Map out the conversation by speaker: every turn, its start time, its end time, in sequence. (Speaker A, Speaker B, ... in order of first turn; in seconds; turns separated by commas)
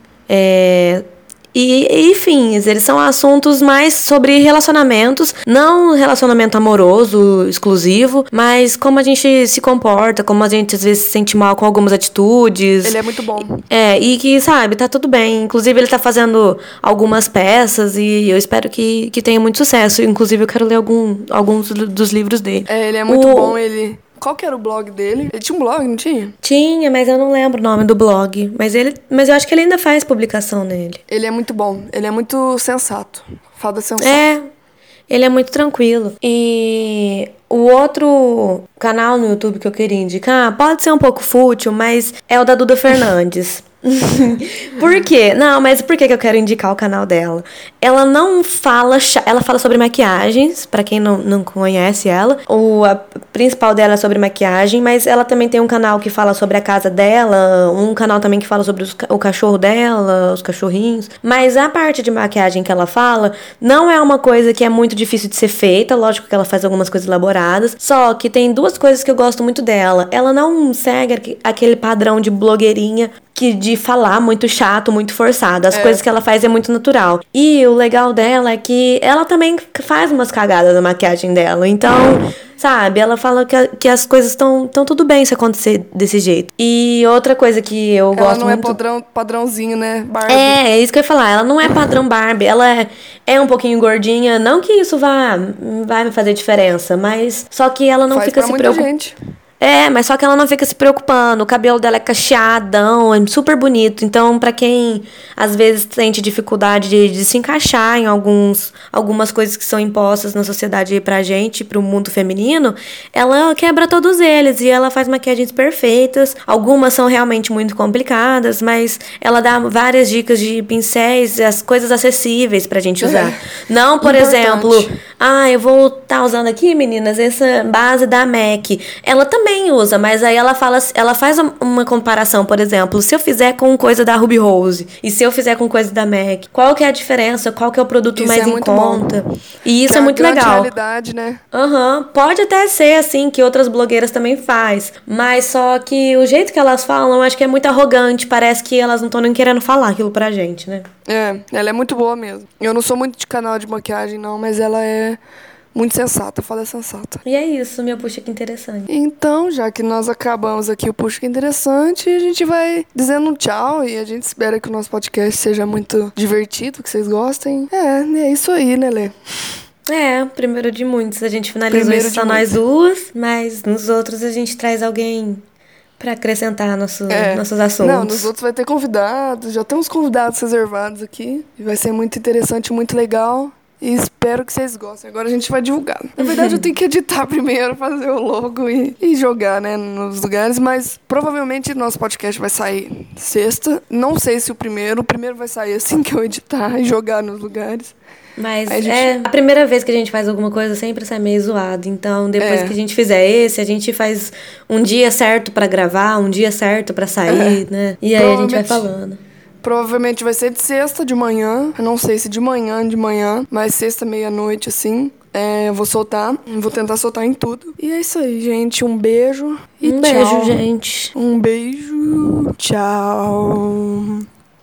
Speaker A: 0.3-13.0, Speaker B: 12.8-13.6, Speaker A: 13.6-23.6, Speaker B: 22.7-26.4, Speaker A: 26.4-31.0, Speaker B: 31.1-34.3, Speaker A: 34.0-34.4, Speaker A: 35.1-88.8, Speaker B: 75.7-76.0, Speaker B: 88.1-90.6, Speaker A: 90.3-98.9, Speaker B: 98.1-99.2, Speaker A: 99.6-140.7, Speaker B: 123.0-123.4, Speaker B: 124.0-125.0, Speaker B: 138.2-139.2, Speaker B: 139.8-141.4, Speaker A: 141.5-150.9, Speaker B: 151.1-155.2, Speaker B: 155.7-157.2, Speaker A: 157.2-158.9, Speaker B: 158.9-169.1, Speaker A: 169.9-175.4, Speaker B: 171.7-172.6, Speaker A: 176.0-178.3, Speaker B: 177.1-197.9, Speaker A: 186.2-186.7, Speaker A: 198.4-209.2, Speaker B: 198.7-199.1, Speaker B: 202.4-202.7, Speaker B: 207.2-207.6, Speaker B: 208.2-208.9, Speaker B: 209.6-220.6, Speaker A: 219.8-221.1, Speaker B: 221.1-224.2